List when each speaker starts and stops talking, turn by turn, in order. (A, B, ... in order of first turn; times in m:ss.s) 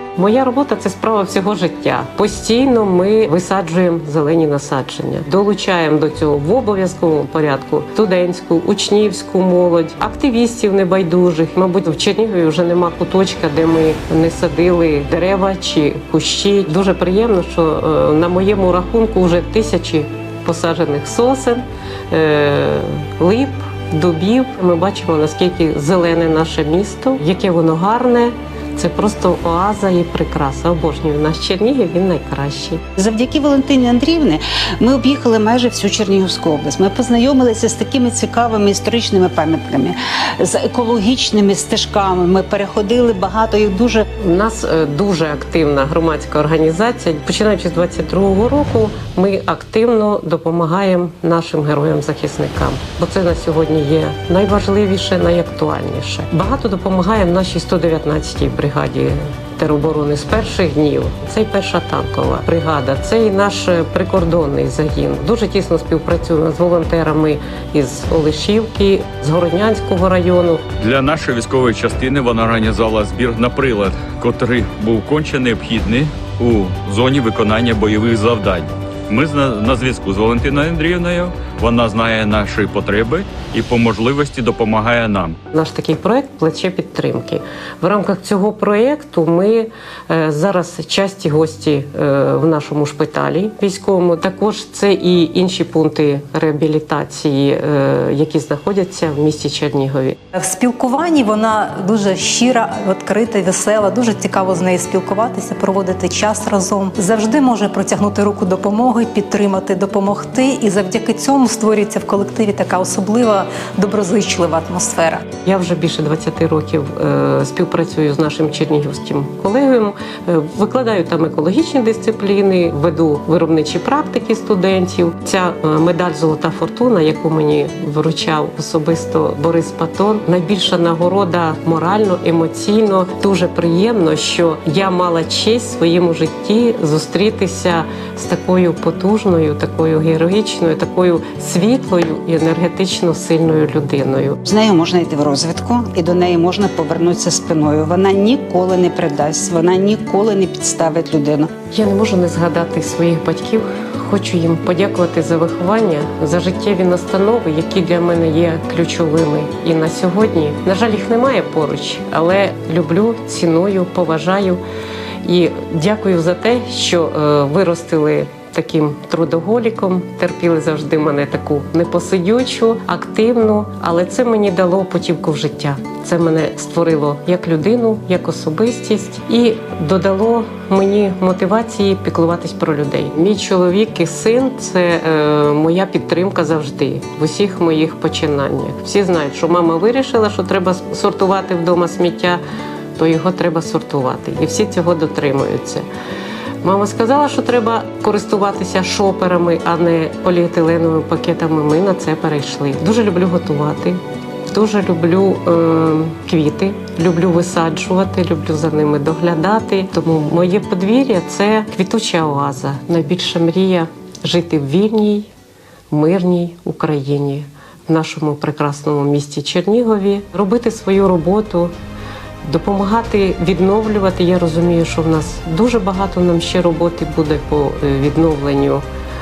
0:00.2-0:32.8 A
0:33.0-0:44.0 B
0:44.2-1:10.6 A
1:10.8-1:25.3 C
1:25.5-1:40.2 A
1:40.3-1:55.2 D
1:55.4-2:24.4 A
2:24.4-2:31.5 B
2:31.7-2:44.6 A
2:45.2-3:12.4 A
3:13.0-3:15.9 A
3:16.6-3:35.3 A
3:35.9-3:41.7 A
3:42.4-3:48.8 A